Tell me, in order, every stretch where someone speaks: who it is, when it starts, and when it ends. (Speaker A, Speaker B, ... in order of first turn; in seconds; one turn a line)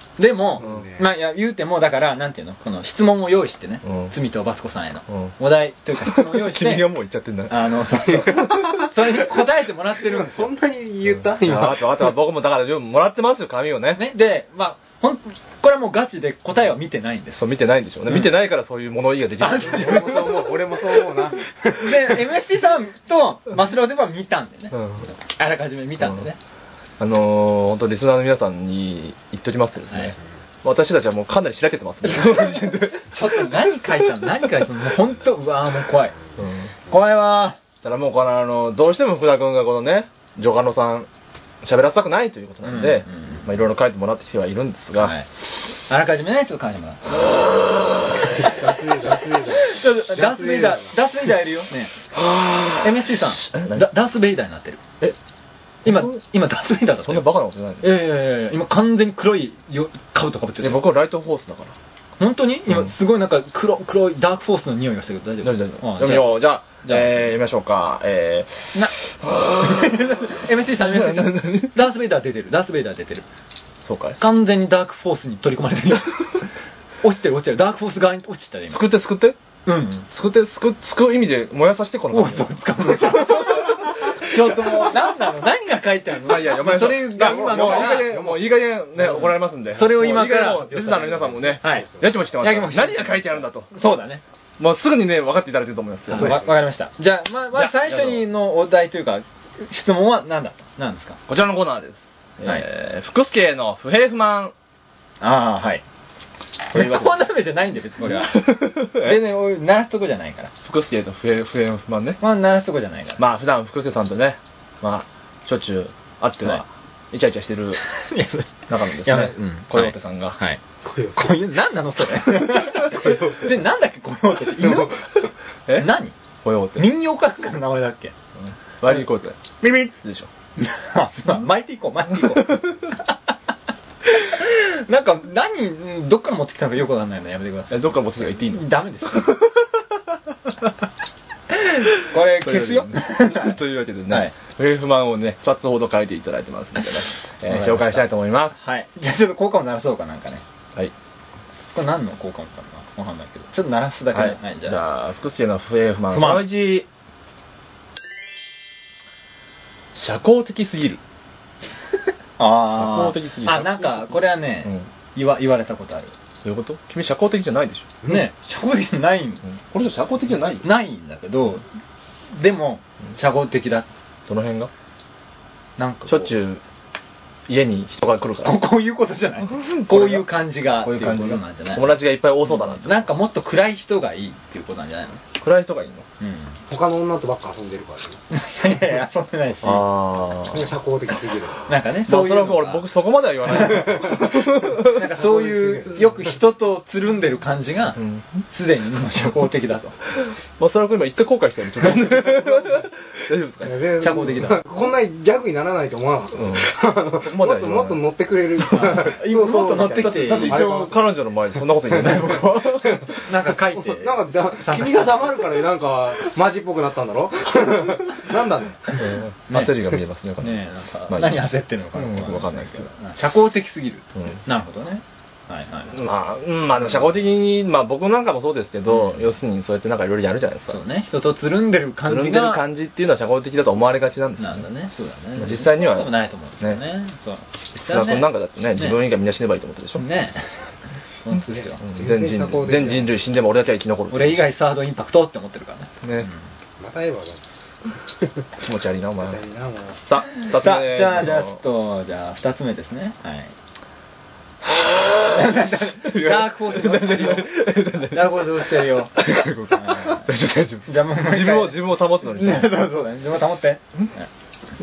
Speaker A: 0.2-6.9
Speaker B: 0.6-1.0
Speaker C: 3.8-4.1
Speaker C: 5.1-5.3
Speaker C: 6.0-8.9
Speaker A: 7.5-10.5
Speaker B: 10.1-12.2
Speaker C: 11.2-14.0
Speaker A: 13.9-17.4
Speaker C: 17.3-20.3
Speaker A: 19.4-20.4
Speaker B: 19.6-22.2
Speaker A: 21.7-26.4
Speaker C: 24.7-25.1
Speaker C: 27.0-33.2
Speaker A: 32.1-32.5
Speaker A: 33.1-36.1
Speaker C: 36.4-36.7
Speaker A: 36.9-37.6
Speaker C: 37.8-41.1
Speaker C: 41.6-45.1
Speaker A: 42.6-43.5
Speaker A: 45.0-45.3
Speaker A: 45.9-47.3
Speaker B: 48.2-50.9
Speaker A: 49.4-52.0
Speaker C: 52.1-53.9
Speaker A: 52.8-54.8
Speaker A: 55.8-60.9
Speaker C: 55.9-56.1
Speaker C: 57.0-57.9
Speaker C: 60.6-61.8
Speaker A: 62.2-67.3
Speaker C: 65.4-70.1
Speaker A: 69.5-73.3
Speaker C: 70.8-71.8
Speaker C: 73.8-74.2
Speaker A: 74.2-76.5
Speaker A: 77.0-78.9
Speaker C: 78.7-79.4
Speaker A: 79.7-80.1
Speaker C: 80.1-85.0
Speaker A: 82.1-88.2
Speaker C: 86.2-93.7
Speaker B: 87.2-89.2
Speaker A: 89.7-94.2
Speaker C: 94.6-96.4
Speaker A: 96.1-101.2
Speaker C: 97.5-98.3
Speaker C: 101.3-104.5
Speaker A: 105.2-105.8
Speaker A: 106.7-110.5
Speaker C: 106.7-107.2
Speaker C: 108.2-109.2
Speaker C: 110.6-112.2
Speaker A: 112.2-113.2
Speaker C: 113.2-117.8
Speaker A: 117.8-120.6
Speaker C: 118.7-120.4
Speaker B: 120.8-121.2
Speaker A: 121.1-125.1
Speaker A: 125.7-126.2
Speaker C: 126.4-126.9
Speaker A: 126.8-128.1
Speaker C: 128.4-130.3
Speaker A: 130.6-132.9
Speaker A: 134.1-139.4
Speaker C: 137.7-138.7
Speaker A: 142.0-143.6
Speaker C: 142.4-148.6
Speaker A: 144.1-144.3
Speaker A: 147.4-150.4
Speaker A: 151.7-154.8
Speaker C: 154.1-156.9
Speaker A: 156.1-156.5
Speaker C: 159.9-161.0
Speaker A: 162.4-166.1
Speaker C: 162.7-164.9
Speaker C: 166.4-167.9
Speaker A: 168.1-169.4
Speaker C: 169.5-170.7
Speaker A: 170.6-171.7
Speaker A: 172.3-173.9
Speaker C: 174.3-174.7
Speaker A: 175.8-176.3
Speaker C: 176.1-176.6
Speaker C: 177.5-178.6
Speaker A: 178.4-185.2
Speaker C: 179.5-183.1
Speaker C: 185.4-186.1
Speaker A: 186.2-186.6
Speaker B: 186.7-188.2
Speaker A: 188.3-189.9
Speaker C: 189.6-190.7
Speaker B: 190.5-191.7
Speaker A: 191.7-192.9
Speaker C: 192.1-195.0
Speaker A: 193.5-200.0
Speaker B: 194.0-196.3
Speaker C: 198.0-198.3
Speaker C: 200.2-203.8
Speaker B: 202.2-202.8
Speaker B: 203.6-211.1
Speaker A: 204.0-204.7
Speaker C: 206.4-209.1
Speaker A: 208.6-210.7
Speaker C: 210.1-213.3
Speaker B: 211.8-213.2
Speaker A: 213.2-215.4
Speaker B: 213.8-218.9
Speaker C: 219.0-222.9
Speaker A: 219.5-219.8
Speaker A: 220.4-226.0
Speaker C: 225.9-230.8
Speaker A: 228.9-229.2
Speaker A: 230.7-232.6
Speaker C: 232.1-234.7
Speaker A: 234.4-239.0
Speaker C: 235.4-236.8
Speaker C: 237.9-240.1
Speaker A: 240.0-240.5
Speaker A: 241.2-241.8
Speaker C: 241.8-244.4
Speaker B: 241.9-243.1
Speaker A: 244.1-246.4
Speaker C: 246.0-246.3
Speaker B: 246.8-247.4
Speaker C: 248.6-249.4
Speaker B: 249.2-250.0
Speaker C: 250.1-251.6
Speaker A: 250.4-253.5
Speaker C: 254.6-262.8
Speaker A: 255.3-260.3
Speaker A: 260.9-264.3